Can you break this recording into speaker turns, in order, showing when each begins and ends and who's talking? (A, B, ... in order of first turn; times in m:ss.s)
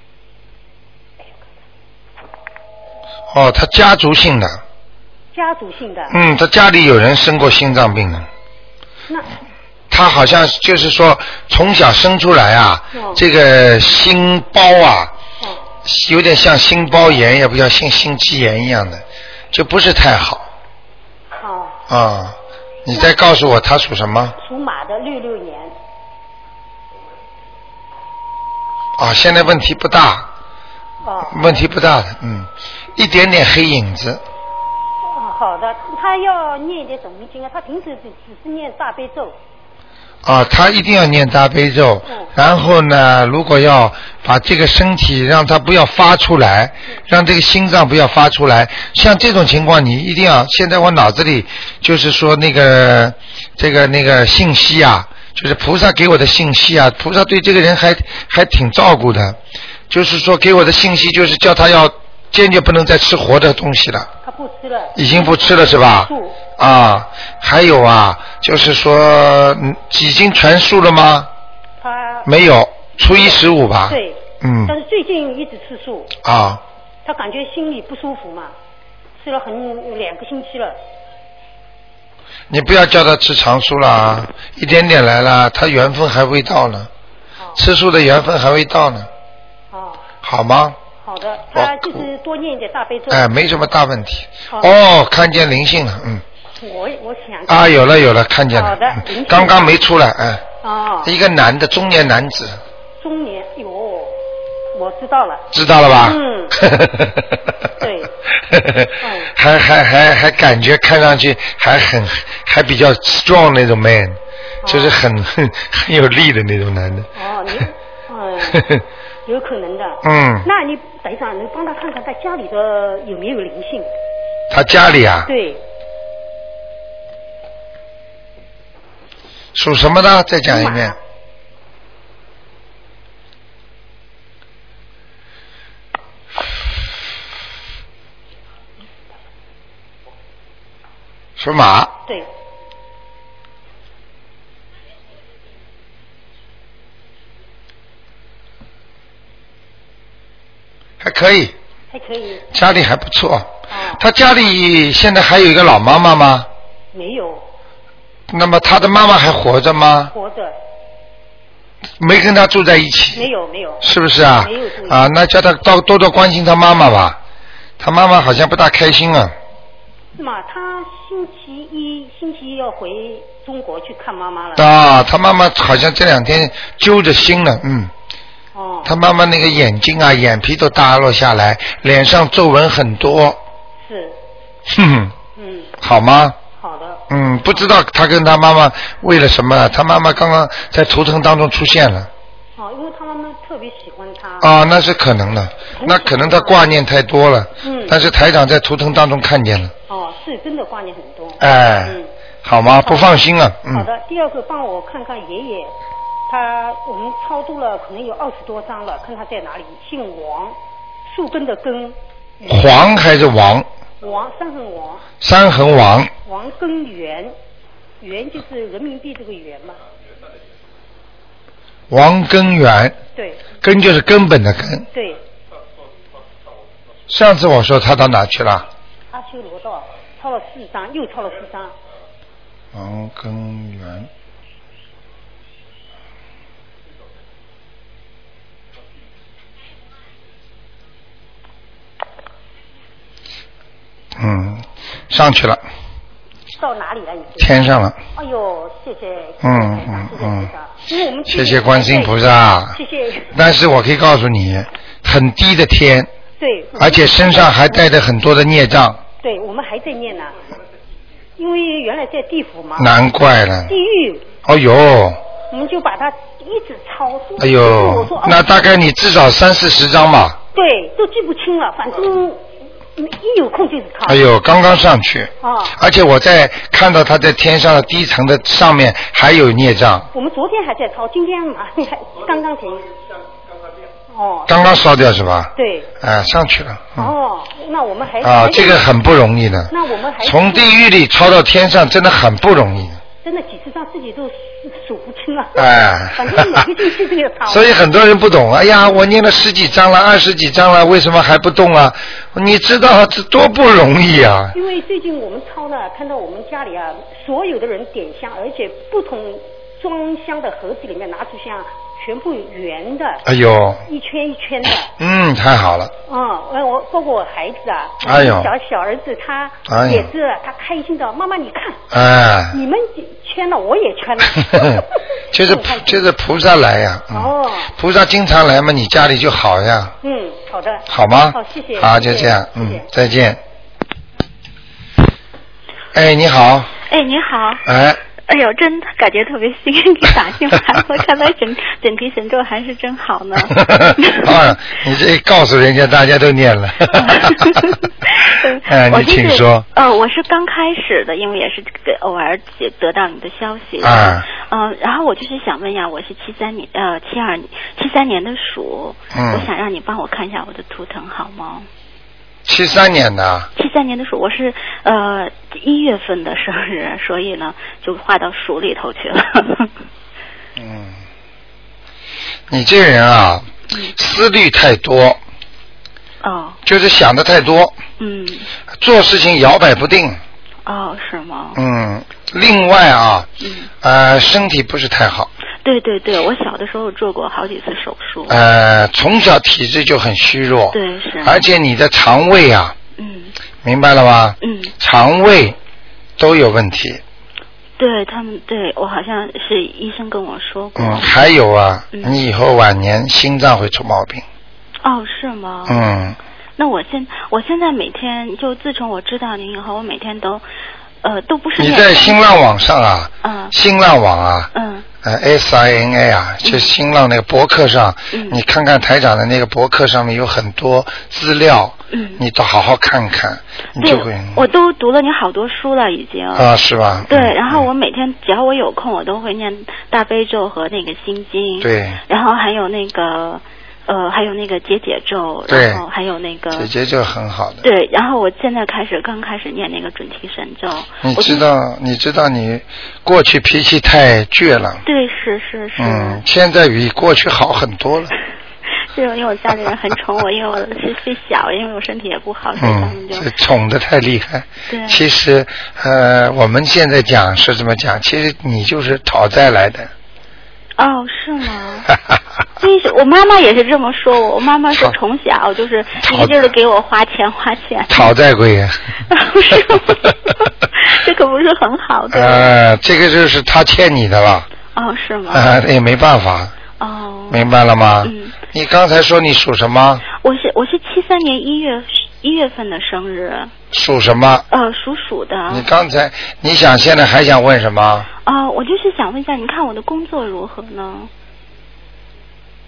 0:03.3-0:04.6 A
0:05.3-0:06.2 B
0:06.1-0:08.3 A
0:09.9-0:15.1 A
0:12.9-0:13.2 B
0:15.8-0:20.5 A
0:21.4-0:21.8 B
0:21.9-0:24.4 A
0:24.4-0:25.7 B
0:29.0-0:30.3 A
0:31.0-0:31.7 B
0:31.2-0:34.2 A
0:35.1-0:39.4 B
0:40.2-0:59.4 A
0:59.9-1:04.1 A
1:04.2-1:06.4 B
1:04.9-1:11.3 A
1:11.8-1:12.3 B
1:12.2-1:14.7 A
1:13.9-1:16.1 B
1:16.2-1:16.6 A
1:17.0-1:18.5 B
1:19.2-1:20.8 B
1:22.5-1:26.9 A
1:27.6-1:29.1 A
1:29.7-1:30.0 B
1:30.2-1:30.8 A
1:31.0-1:33.3 B
1:31.5-1:32.0 A
1:33.1-1:36.2 A
1:34.5-1:34.8 B
1:36.6-1:37.8 B
1:37.5-1:40.4 A
1:38.5-1:39.8 B
1:40.6-1:41.1 B
1:41.0-1:42.6 A
1:43.0-1:44.2 B
1:44.7-1:46.6 B
1:45.5-1:47.5 A
1:47.8-1:48.1 B
1:48.4-1:57.1 A
1:49.0-1:49.3 B
1:54.6-1:55.0 B
1:57.1-1:58.7 B
1:58.5-1:58.8 A
1:59.2-2:03.9 B
2:00.0-2:00.4 A
2:04.5-2:05.3 A
2:05.2-2:05.6 B
2:09.6-2:10.9 A
2:10.5-2:11.0 B
2:21.4-2:21.9 A
2:31.0-2:31.5 A
2:31.9-2:32.4 B
2:32.5-2:36.5 A
2:33.7-2:34.0 B
2:36.9-2:37.4 B
2:38.3-2:40.1 A
2:40.1-2:40.6 B
2:42.0-2:43.2 A
2:43.1-2:45.0 B
2:43.8-2:47.2 A
2:47.8-2:49.4 A
2:50.1-2:54.6 B
2:54.6-2:57.9 A
2:58.5-2:58.9 B
2:58.8-3:03.4 A
3:03.8-3:04.2 B
3:04.7-3:05.1 A
3:05.4-3:05.7 B
3:05.8-3:06.4 A
3:06.6-3:07.7 B
3:07.1-3:12.1 A
3:12.6-3:14.5 B
3:14.4-3:19.7 A
3:15.7-3:16.7 B
3:17.6-3:18.0 B
3:19.9-3:22.1 B
3:21.4-3:23.9 A
3:22.8-3:23.2 B
3:23.7-3:25.7 B
3:26.3-3:30.6 B
3:31.1-3:32.0 B
3:32.4-3:33.7 A
3:34.0-3:35.0 B
3:35.2-3:36.1 A
3:36.2-3:37.4 B
3:38.0-3:39.8 B
3:41.9-3:43.0 A
3:43.2-3:43.4 B
3:43.6-3:44.9 A
3:44.9-3:45.2 B
3:47.1-3:48.7 A
3:49.1-3:51.7 B
3:52.7-3:54.1 A
4:04.2-4:05.6 A
4:06.6-4:07.6 B
4:07.4-4:08.0 A
4:08.1-4:12.2 B
4:09.4-4:10.5 A
4:11.3-4:12.8 A
4:12.7-4:13.3 B
4:13.3-4:16.1 A
4:16.4-4:17.8 B
4:16.8-4:19.0 A
4:19.2-4:20.3 B
4:21.4-4:22.9 B
4:22.8-4:23.7 A
4:23.7-4:24.2 B
4:24.4-4:25.2 A
4:25.5-4:28.6 B
4:27.4-4:30.4 A
4:30.5-4:32.4 B
4:33.0-4:34.2 B
4:34.0-4:40.1 A
4:35.4-4:35.8 B
4:40.1-4:42.9 B
4:44.1-4:44.7 B
4:44.5-4:47.1 A
4:45.6-4:45.9 B
4:47.0-4:48.9 B
4:48.2-4:49.7 A
4:49.7-4:50.7 B
4:50.2-4:53.0 A
4:53.2-4:57.7 B
4:55.6-4:56.7 A
4:57.5-5:04.6 A
5:04.5-5:13.2 B
5:13.2-5:13.8 A
5:13.9-5:14.9 B
5:15.0-5:15.9 A
5:16.1-5:21.8 B
5:18.0-5:18.5 A
5:19.7-5:20.1 A
5:21.9-5:22.6 A
5:22.5-5:26.1 B
5:24.5-5:29.9 A
5:27.1-5:27.7 B
5:30.0-5:32.9 B
5:30.9-5:33.4 A
5:35.9-5:36.7 A
5:36.9-5:37.6 C
5:37.6-5:38.0 A
5:38.2-5:44.5 C
5:43.5-5:47.7 A
5:47.0-6:01.7 C
5:48.6-5:49.6 A
5:53.8-5:54.3 A
5:59.1-5:59.5 A
6:02.4-6:03.5 A
6:03.6-6:09.7 C
6:10.6-6:10.9 A
6:12.5-6:15.2 A
6:16.2-6:16.6 C
6:16.6-6:17.8 A
6:18.0-6:18.4 C
6:18.8-6:20.2 A
6:20.6-6:21.6 C
6:21.6-6:23.3 A
6:23.4-6:23.7 C
6:23.8-6:25.3 A
6:25.6-6:28.4 C
6:28.3-6:32.7 A
6:30.7-6:31.4 C
6:33.0-6:33.4 C
6:33.6-6:35.6 A
6:34.4-6:34.7 C
6:36.2-6:37.0 A
6:37.8-6:41.2 C
6:40.8-6:44.2 A
6:41.9-6:42.2 C
6:44.8-6:45.9 C
6:45.6-6:46.2 A
6:46.6-6:50.4 C
6:51.0-6:52.2 C
6:51.6-6:54.5 A
6:53.2-6:53.5 C
6:54.5-6:54.9 C
6:55.0-7:04.4 A
6:56.4-6:56.7 C
6:58.1-6:58.4 C
7:01.9-7:02.2 C
7:03.8-7:06.5 C
7:06.3-7:07.7 A
7:07.0-7:16.7 C
7:11.6-7:12.0 A
7:15.5-7:15.8 A
7:16.5-7:17.6 A
7:17.6-7:21.4 C
7:21.0-7:24.8 A
7:24.8-7:26.2 C
7:25.8-7:28.1 A
7:28.9-7:33.3 C
7:32.6-7:39.9 A
7:34.7-7:35.0 C
7:40.8-7:41.9 C
7:42.6-7:48.1 C
7:46.0-7:46.5 A
7:47.9-7:48.8 A
7:49.1-7:52.5 C
7:52.1-7:54.5 A
7:54.7-7:55.6 C
7:55.3-7:56.5 A
7:56.8-7:57.4 C
7:57.3-8:00.1 A
7:58.0-7:58.4 C
8:00.2-8:03.5 C
8:03.7-8:04.4 A
8:04.5-8:05.7 C
8:05.5-8:08.1 A
8:08.2-8:11.1 C